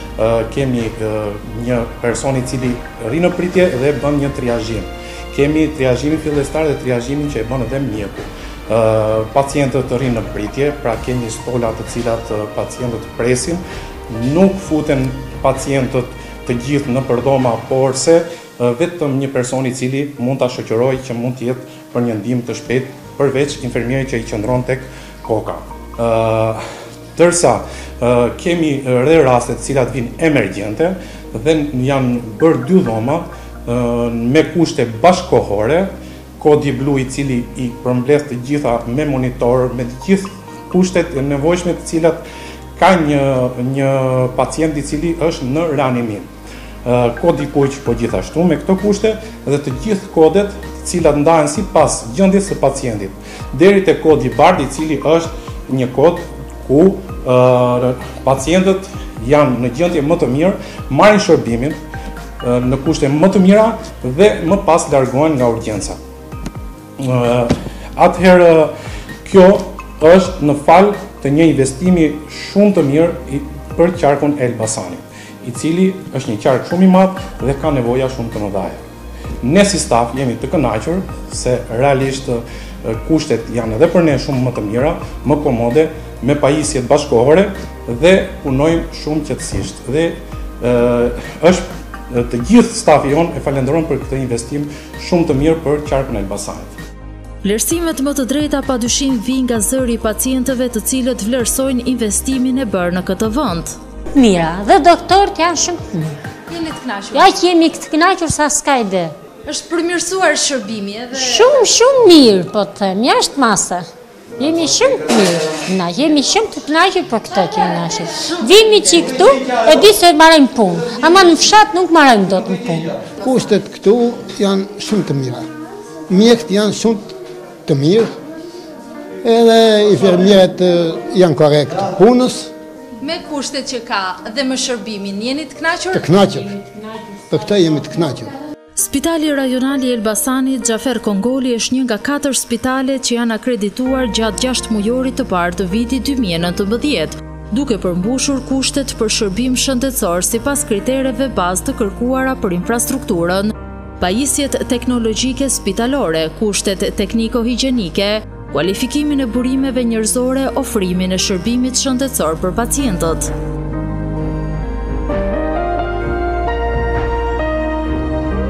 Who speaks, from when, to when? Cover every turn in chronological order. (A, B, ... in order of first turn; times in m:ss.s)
0:00.2-0:26.6 A
0:27.2-0:42.2 A
0:42.8-0:46.3 A
0:46.8-1:01.8 A
1:02.4-1:06.0 A
1:07.0-1:08.7 A
1:09.3-1:18.8 A
1:19.4-1:36.7 A
1:37.4-1:43.8 B
1:44.2-1:46.2 C
1:46.5-1:47.4 B
1:47.1-1:49.1 C
1:49.4-1:51.6 B
1:51.1-1:53.9 C
1:54.4-2:02.9 C
1:58.2-1:59.2 B
2:03.2-2:05.5 D
2:06.1-2:08.1 D
2:09.2-2:12.5 D
2:13.0-2:16.2 B
2:15.9-2:16.6 D
2:16.7-2:17.0 C
2:17.3-2:18.3 D
2:18.8-2:43.3 B